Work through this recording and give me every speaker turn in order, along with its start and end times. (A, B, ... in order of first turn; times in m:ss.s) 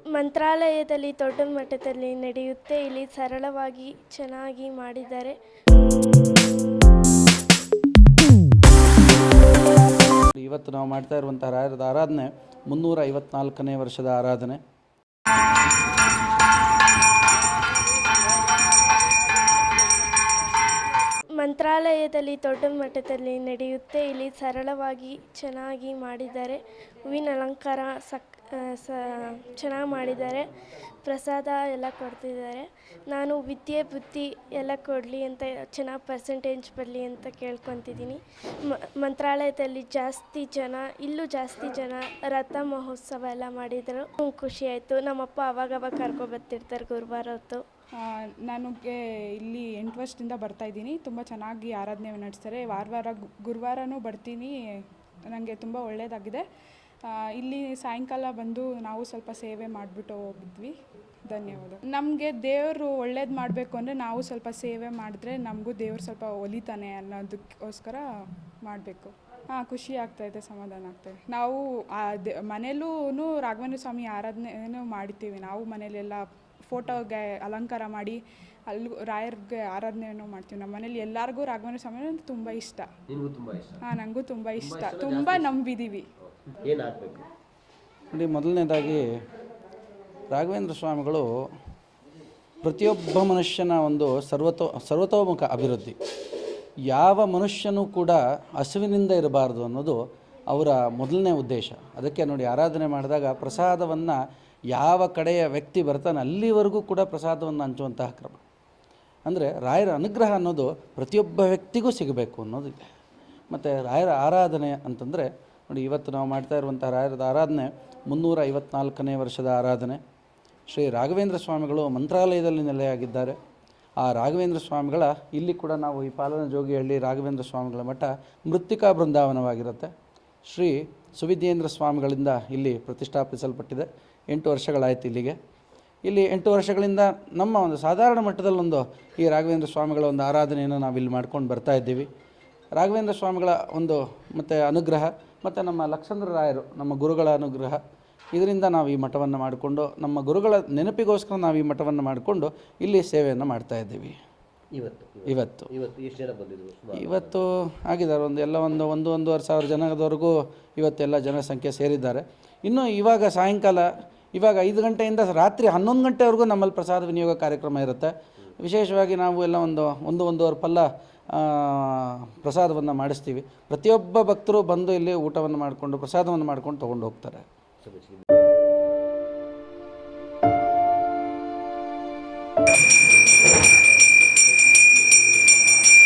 0:00.1-0:05.4 A
0:10.2-0:14.6 B
0:21.4-0:47.6 A
0:47.9-0:56.4 C
0:57.0-1:00.7 C
1:01.3-1:08.1 C
1:08.6-1:22.9 C
1:23.1-1:23.8 D
1:23.9-1:26.0 C
1:24.5-1:25.6 D
1:26.5-1:27.3 D
1:28.1-1:29.1 B
1:30.3-1:31.3 B
1:32.6-1:35.9 B
1:36.9-1:44.2 B
1:44.7-1:48.4 B
1:49.2-1:52.9 B
1:53.5-2:00.0 B
2:00.7-2:03.3 B
2:04.0-2:09.9 B
2:10.5-2:15.4 B
2:16.0-2:22.1 B
2:22.8-2:27.8 B
2:28.3-2:34.2 B
2:34.7-2:37.5 D
2:35.3-2:35.7 B
2:36.9-2:57.4 B
2:57.8-2:58.2 D
3:03.2-3:05.8 B